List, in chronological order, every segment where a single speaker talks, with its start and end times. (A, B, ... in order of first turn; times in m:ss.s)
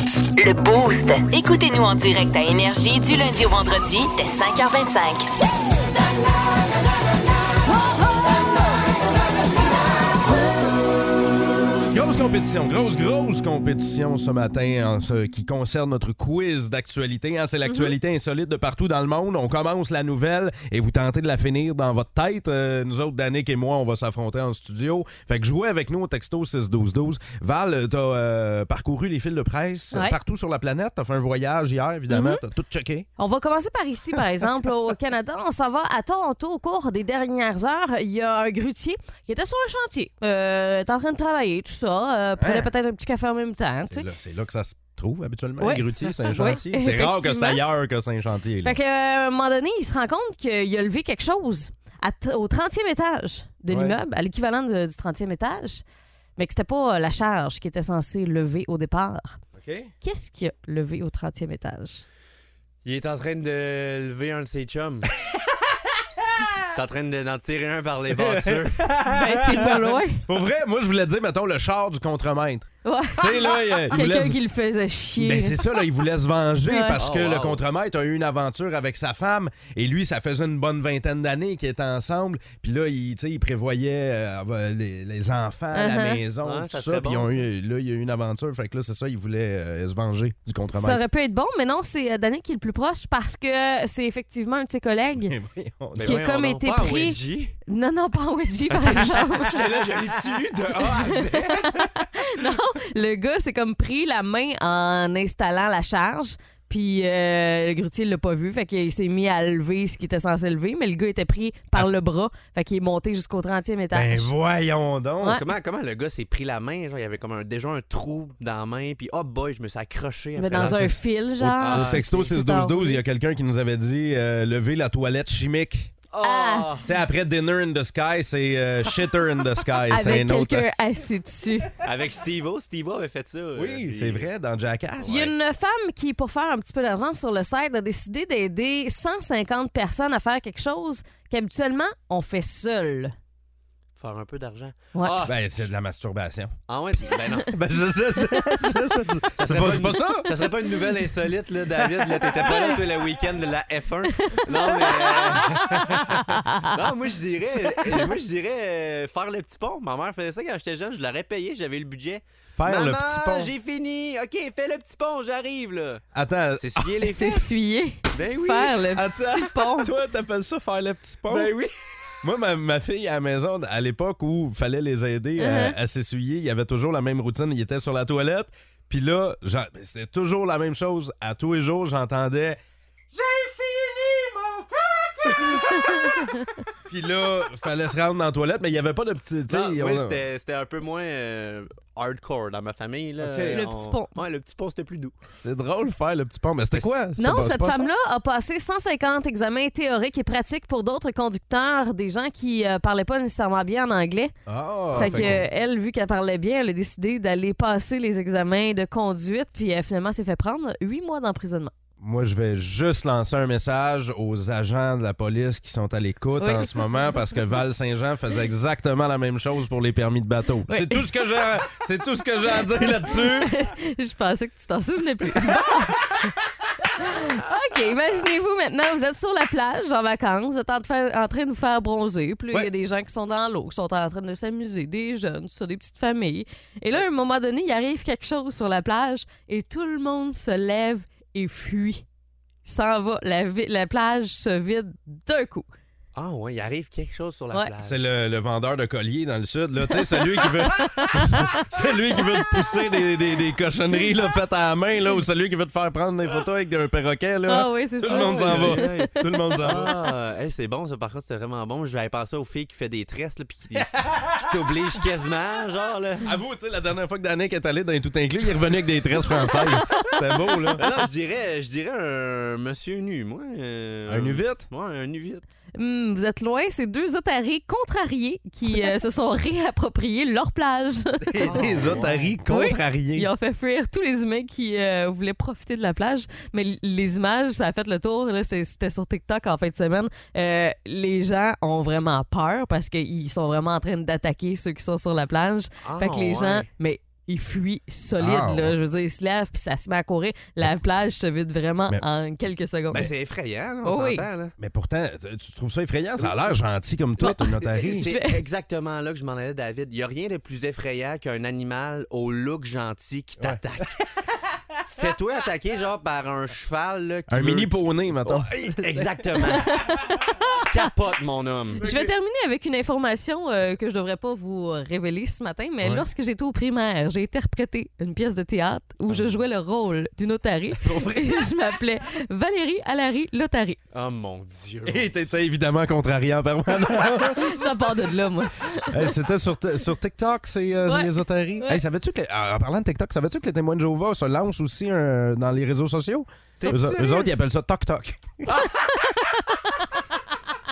0:00.4-0:05.3 A
0:11.9-0:33.1 B
0:32.1-0:32.4 C
0:33.2-0:44.0 C
0:42.4-0:42.7 B
0:43.9-0:48.7 B
0:45.6-0:47.6 C
0:46.2-0:46.5 D
0:48.6-0:55.8 C
0:53.7-0:54.0 B
0:56.4-0:59.4 C
0:59.5-0:59.9 B
1:00.0-1:02.0 C
1:02.8-1:05.1 D
1:06.7-1:08.9 D
1:08.1-1:14.4 B
1:09.1-1:10.2 C
1:12.8-1:15.6 C
1:15.2-1:31.0 B
1:16.7-1:17.0 C
1:17.0-1:17.6 D
1:25.7-1:26.2 C
1:26.4-1:27.5 D
1:30.7-1:35.4 C
1:35.2-1:36.2 B
1:36.0-1:37.5 D
1:36.0-1:39.6 C
1:38.7-1:41.8 D
1:39.1-1:41.1 B
1:40.9-1:54.3 C
1:53.9-1:55.4 B
1:55.3-2:01.0 D
2:00.4-2:03.0 C
2:00.5-2:05.9 B
2:01.6-2:02.4 D
2:06.1-2:06.9 D
2:06.2-2:06.7 C
2:06.8-2:10.7 B
2:09.9-2:11.8 C
2:11.8-2:14.2 D
2:13.6-2:15.3 B
2:15.0-2:23.1 C
2:24.0-2:25.4 D
2:25.2-2:26.5 B
2:26.7-2:27.6 D
2:27.2-2:30.5 B
2:29.4-2:46.0 D
2:31.8-2:32.8 B
2:34.2-2:36.7 C
2:42.5-2:43.5 B
2:46.1-2:46.9 B
2:46.6-2:47.5 D
2:47.0-2:49.9 C
2:48.1-2:48.8 D
2:48.9-2:51.5 B
2:51.3-2:52.1 D
2:52.2-3:02.6 B
2:55.4-2:55.8 C
3:03.1-3:06.3 B
3:05.3-3:05.6 D
3:05.9-3:06.5 C
3:06.9-3:10.2 B
3:09.5-3:15.1 D
3:13.2-3:13.6 B
3:13.5-3:14.2 C
3:15.3-3:17.9 B
3:17.2-3:24.3 C
3:24.4-3:25.4 B
3:24.9-3:31.7 C
3:24.9-3:25.4 D
3:32.0-3:43.5 B
3:36.4-3:36.8 C
3:40.7-3:41.0 C
3:43.1-3:46.3 C
3:46.9-4:02.0 C
4:02.6-4:05.7 C
4:06.1-4:08.0 D
4:07.8-4:19.9 B
4:10.6-4:11.5 C
4:17.5-4:19.1 C
4:18.0-4:26.3 D
4:23.8-4:24.5 B
4:26.2-4:30.8 B
4:30.8-4:35.4 D
4:34.1-4:34.7 B
4:35.7-4:41.8 C
4:41.2-4:43.3 B
4:41.4-4:42.4 D
4:42.5-5:03.1 C
4:55.8-4:56.7 D
4:58.2-4:58.8 B
5:02.9-5:04.5 D
5:03.8-5:04.2 C
5:04.6-5:08.1 B
5:07.2-5:08.4 C
5:07.7-5:14.0 D
5:14.9-5:19.8 D
5:17.3-5:19.1 B
5:19.6-5:20.6 C
5:20.6-5:21.8 D
5:21.8-5:22.1 B
5:21.8-5:33.8 C
5:33.9-5:35.3 D
5:34.8-5:37.8 B
5:37.2-5:39.0 C
5:38.8-5:48.5 B
5:40.8-5:41.8 C
5:46.6-5:47.3 D